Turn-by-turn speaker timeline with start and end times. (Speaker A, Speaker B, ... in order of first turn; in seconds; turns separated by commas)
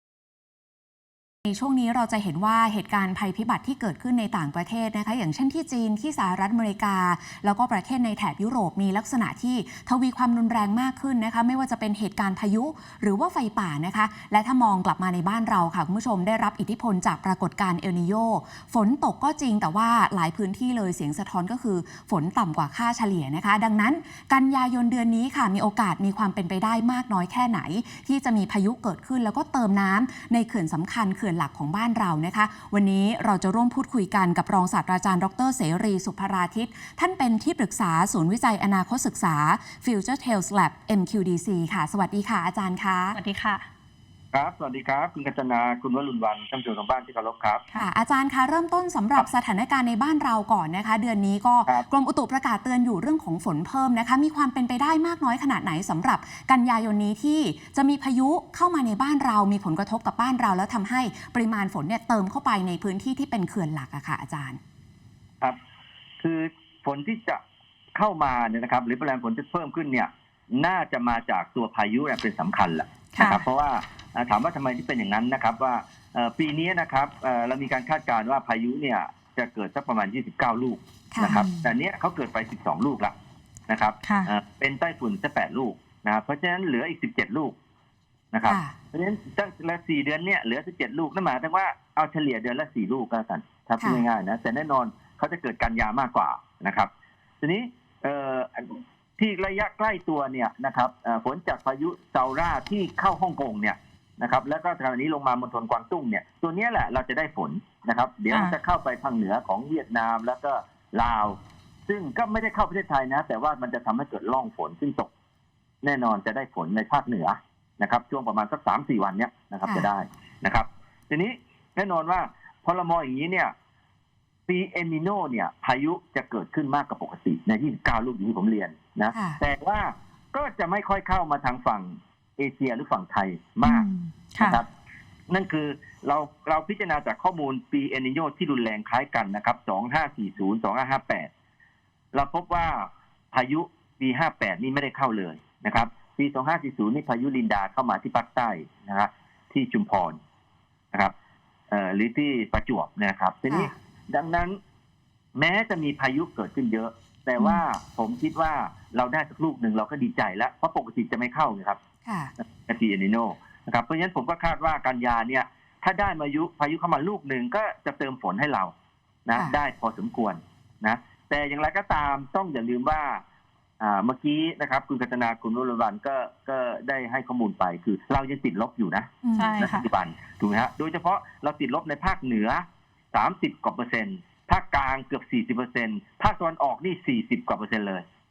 Speaker A: 1.4-43.2, Speaker B: 43.1-43.6, Speaker C: 44.3-47.6, Speaker A: 47.8-64.6, Speaker C: 66.2-67.4, Speaker C: 67.9-83.1, Speaker B: 73.1-73.4, Speaker A: 81.1-81.7, Speaker C: 83.7-87.5, Speaker B: 84.0-84.3, Speaker C: 88.3-96.9, Speaker A: 88.4-88.7, Speaker A: 93.8-94.0, Speaker C: 97.4-115.1, Speaker C: 115.8-123.5, Speaker A: 119.6-119.9, Speaker C: 124.5-133.9, Speaker A: 129.1-129.4, Speaker B: 133.6-134.6, Speaker C: 134.4-134.7, Speaker C: 135.3-141.3, Speaker C: 142.1-150.2, Speaker C: 151.7-154.6, Speaker C: 155.3-161.8, Speaker A: 157.4-157.6, Speaker A: 162.0-162.3, Speaker C: 162.4-168.7, Speaker C: 169.2-173.2, Speaker C: 173.8-188.0, Speaker A: 179.2-179.6, Speaker B: 179.3-179.8